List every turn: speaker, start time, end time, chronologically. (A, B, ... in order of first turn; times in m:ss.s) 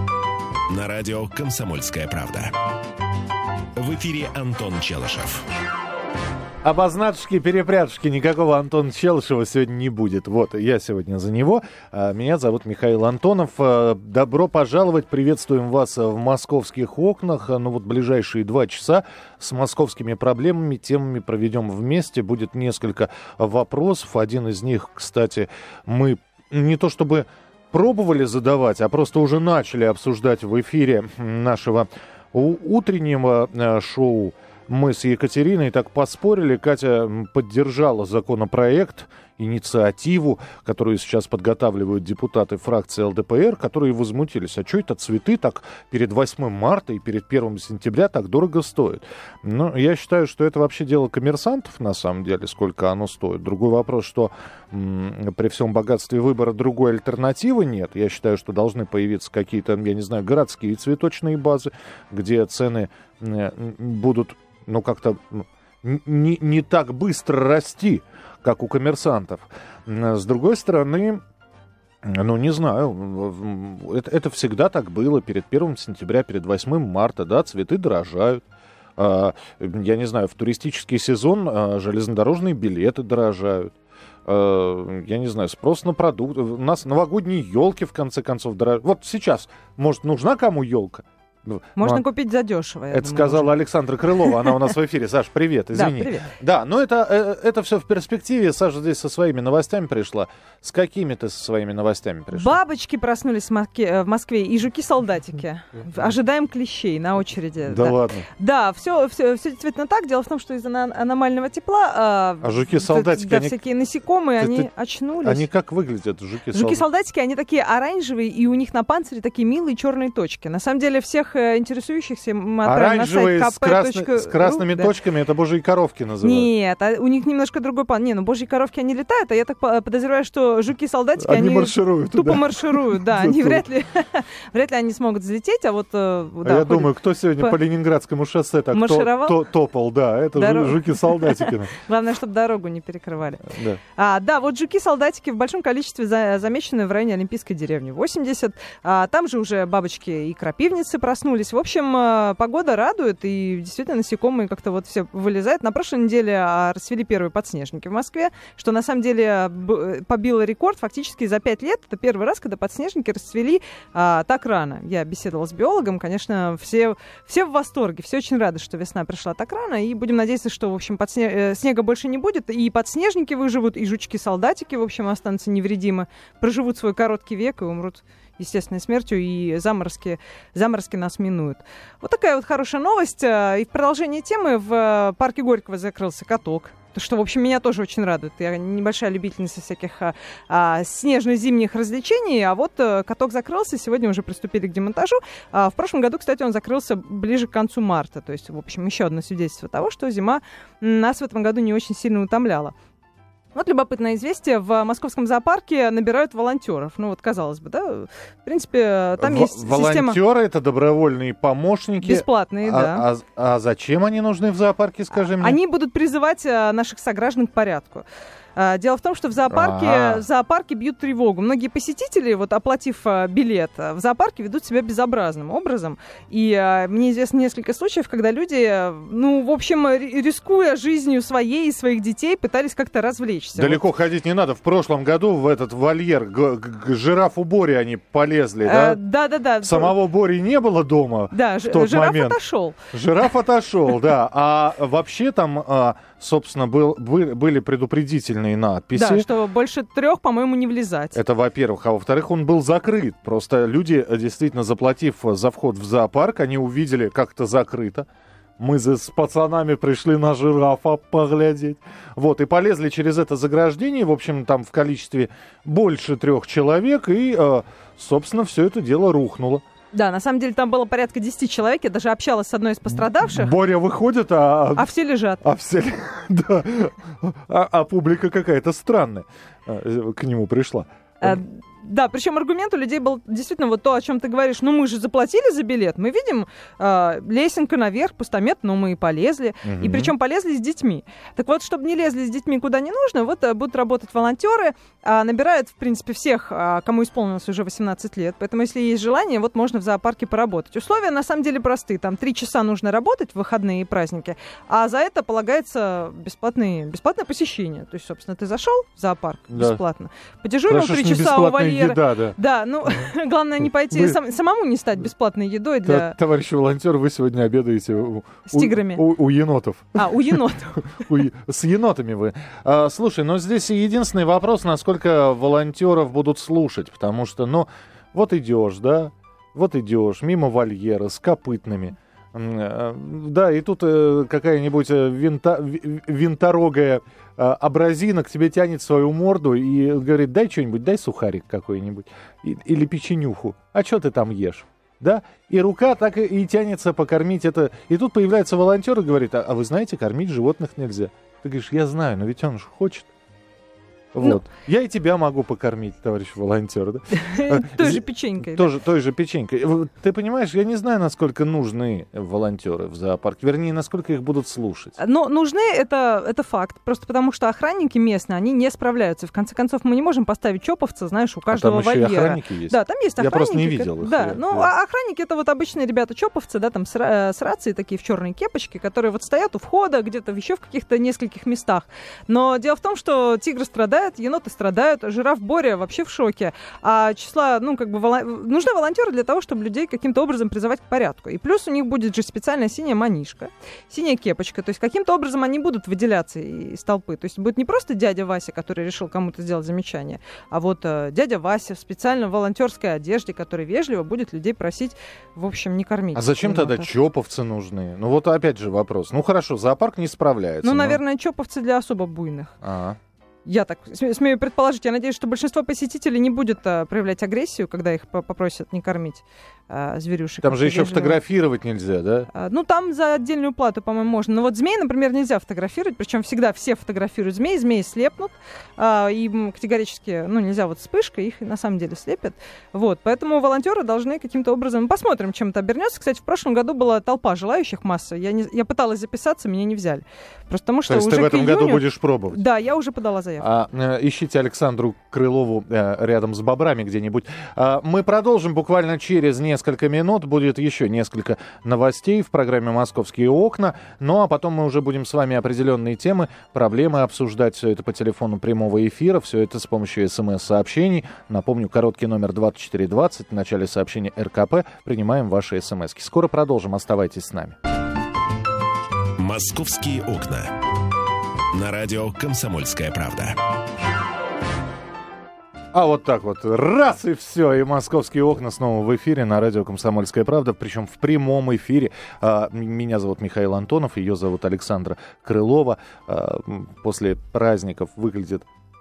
0:00.7-0:02.5 A
0:03.8-0:05.5 A
0:06.6-1:11.2 B
1:12.0-1:18.4 B
1:19.0-1:23.7 B
1:24.3-1:32.0 B
1:31.8-1:33.6 C
1:32.9-1:42.6 B
1:34.3-1:34.6 C
1:35.7-1:36.3 C
1:42.3-1:55.4 C
1:47.6-1:48.3 B
1:52.4-1:53.6 B
1:54.4-1:54.7 B
1:55.2-1:56.8 B
1:56.5-2:04.9 C
2:02.6-2:06.5 B
2:06.2-2:17.6 C
2:11.2-2:13.6 B
2:16.4-2:21.7 B
2:18.7-2:19.4 C
2:20.4-3:22.7 C
2:23.5-2:23.8 B
3:23.6-3:30.2 C
3:29.2-3:35.6 B
3:32.0-3:33.1 C
3:35.4-3:38.0 C
3:38.6-3:53.8 C
3:39.5-3:40.2 B
3:53.6-3:59.0 B
3:58.6-4:00.0 C
3:59.6-4:02.4 B
4:01.3-4:02.8 C
4:02.9-4:09.3 B
4:09.0-4:11.2 C
4:11.2-4:18.1 B
4:18.6-4:29.6 B
4:29.9-4:33.5 C
4:32.9-4:34.9 B
4:34.8-4:35.4 C
4:35.4-4:41.4 B
4:41.2-5:16.2 C
4:49.6-4:50.1 B
5:09.5-5:09.8 B
5:10.7-5:12.4 B
5:13.9-5:14.2 B
5:15.8-5:53.1 B
5:18.5-5:19.0 C
5:20.0-5:21.0 C
5:54.1-6:05.0 B
5:57.1-5:58.7 C
6:05.0-6:46.9 C
6:11.5-6:14.7 B
6:46.1-6:51.0 B
6:50.6-6:52.6 C
6:52.6-6:53.0 B
6:53.5-7:01.2 C
7:00.4-7:02.3 B
7:02.3-7:23.5 C
7:20.9-7:22.4 B
7:23.4-7:47.6 B
7:49.2-7:50.5 A
7:51.5-7:53.4 A
7:55.7-8:08.5 B